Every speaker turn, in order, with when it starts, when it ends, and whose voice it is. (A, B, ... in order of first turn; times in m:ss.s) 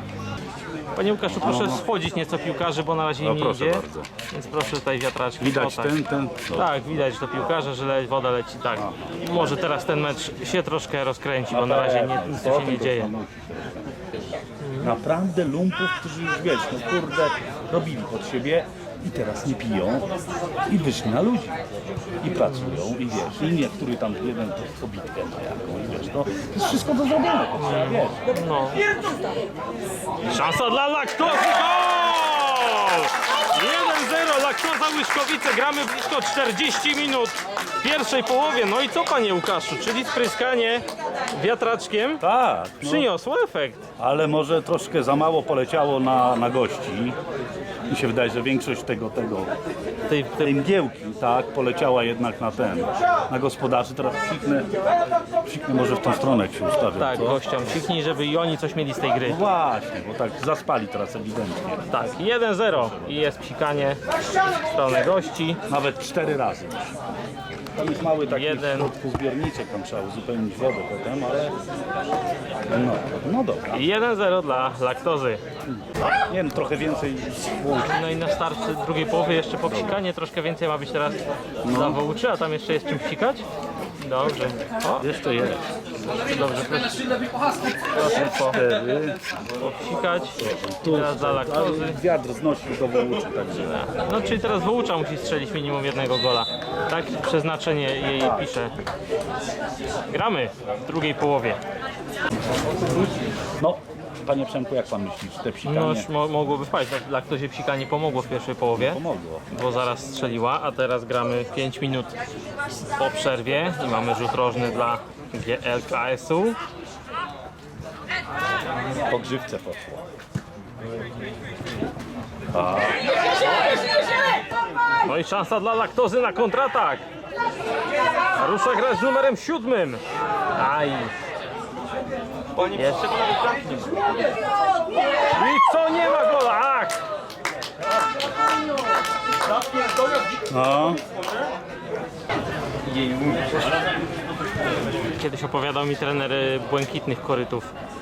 0:00.9-0:06.0 A
0:01.4-0:01.8 B
0:03.2-0:04.1 B
0:05.4-0:06.7 B
0:06.5-0:13.1 A
0:08.8-0:09.3 B
0:11.5-0:13.9 B
0:14.6-0:14.9 A
0:14.8-0:20.1 B
0:20.7-0:21.6 B
0:22.2-0:28.2 B
0:22.4-0:22.8 A
0:27.6-0:28.8 A
0:30.3-0:42.2 A
0:42.2-0:43.1 B
0:42.8-0:43.8 A
0:44.0-0:47.2 B
0:47.9-0:49.5 B
0:50.1-0:50.6 A
0:50.4-0:54.7 B
0:55.4-0:57.4 B
0:57.0-0:59.4 A
0:59.2-1:01.9 B
1:01.9-1:05.6 A
1:02.7-1:03.2 B
1:05.7-1:07.0 B
1:07.8-1:11.6 B
1:08.2-1:08.9 A
1:12.7-1:13.8 B
1:13.7-1:15.4 A
1:15.7-1:18.0 B
1:17.9-1:23.4 A
1:21.6-1:22.0 B
1:24.0-1:25.1 A
1:25.0-1:25.6 B
1:26.1-1:27.0 A
1:27.9-1:28.6 A
1:28.5-1:29.2 B
1:29.6-1:32.0 A
1:30.4-1:33.7 B
1:33.6-1:38.7 A
1:38.2-1:38.5 B
1:40.1-1:41.6 A
1:43.6-1:46.1 B
1:45.6-1:52.1 A
1:48.8-1:49.4 B
1:53.0-1:56.6 A
1:59.1-2:00.0 B
2:02.5-2:03.0 B
2:05.0-2:07.0 A
2:08.4-2:10.0 A
2:10.6-2:11.1 A
2:12.6-2:13.9 A
2:15.3-2:17.0 A
2:20.5-2:21.0 B
2:23.0-2:23.4 A
2:25.1-2:27.7 A